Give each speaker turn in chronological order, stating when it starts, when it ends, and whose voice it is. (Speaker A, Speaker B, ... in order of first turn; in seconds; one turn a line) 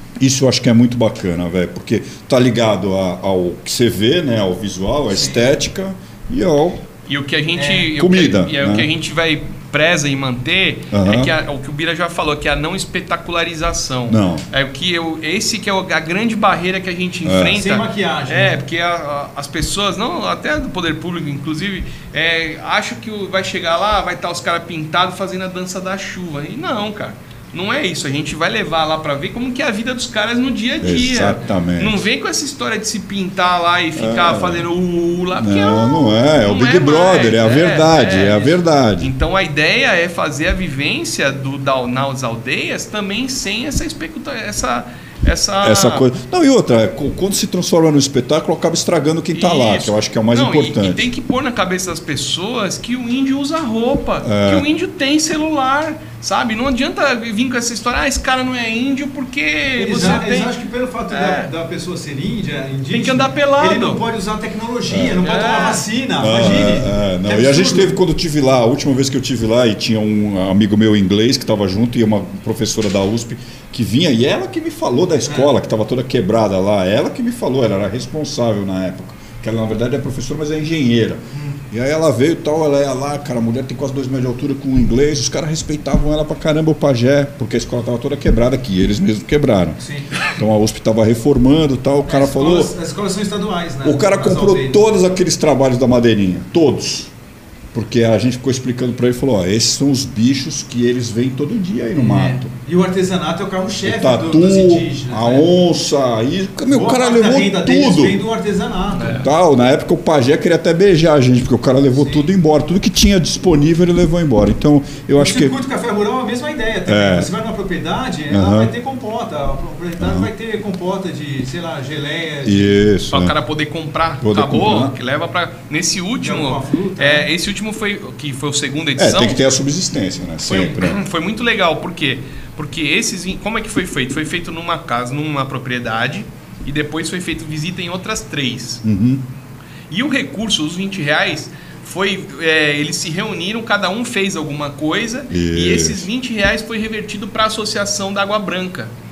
Speaker A: 0.2-6.8
Speaker B: 5.1-5.5
Speaker C: 7.1-46.0
Speaker B: 7.5-7.9
Speaker A: 7.9-8.9
Speaker A: 10.9-11.3
Speaker A: 14.1-14.4
Speaker A: 17.2-17.6
Speaker B: 17.5-18.6
Speaker A: 30.8-32.0
Speaker A: 34.0-34.6
Speaker A: 35.4-39.1
Speaker A: 45.6-51.1
Speaker C: 49.3-60.5
Speaker A: 54.2-54.6
Speaker B: 59.8-67.9
Speaker C: 61.1-61.5
Speaker C: 62.9-64.0
Speaker A: 64.9-65.2
Speaker C: 65.2-65.8
Speaker A: 66.2-92.7
Speaker B: 81.3-81.6
Speaker B: 89.8-90.1
Speaker B: 92.1-94.8
Speaker A: 93.8-97.1
Speaker A: 97.7-102.5
Speaker B: 101.9-105.5
Speaker A: 103.8-108.2
Speaker B: 106.7-109.3
Speaker C: 108.9-109.2
Speaker A: 109.2-115.5
Speaker B: 111.9-112.3
Speaker B: 115.2-122.8
Speaker A: 116.8-117.3
Speaker A: 118.3-118.7
Speaker A: 120.0-120.3
Speaker A: 122.4-123.3
Speaker C: 123.1-129.4
Speaker A: 124.2-124.9
Speaker B: 126.2-127.3
Speaker A: 129.0-131.0
Speaker C: 130.4-138.8
Speaker A: 138.8-139.2
Speaker C: 139.9-148.9
Speaker A: 145.3-146.1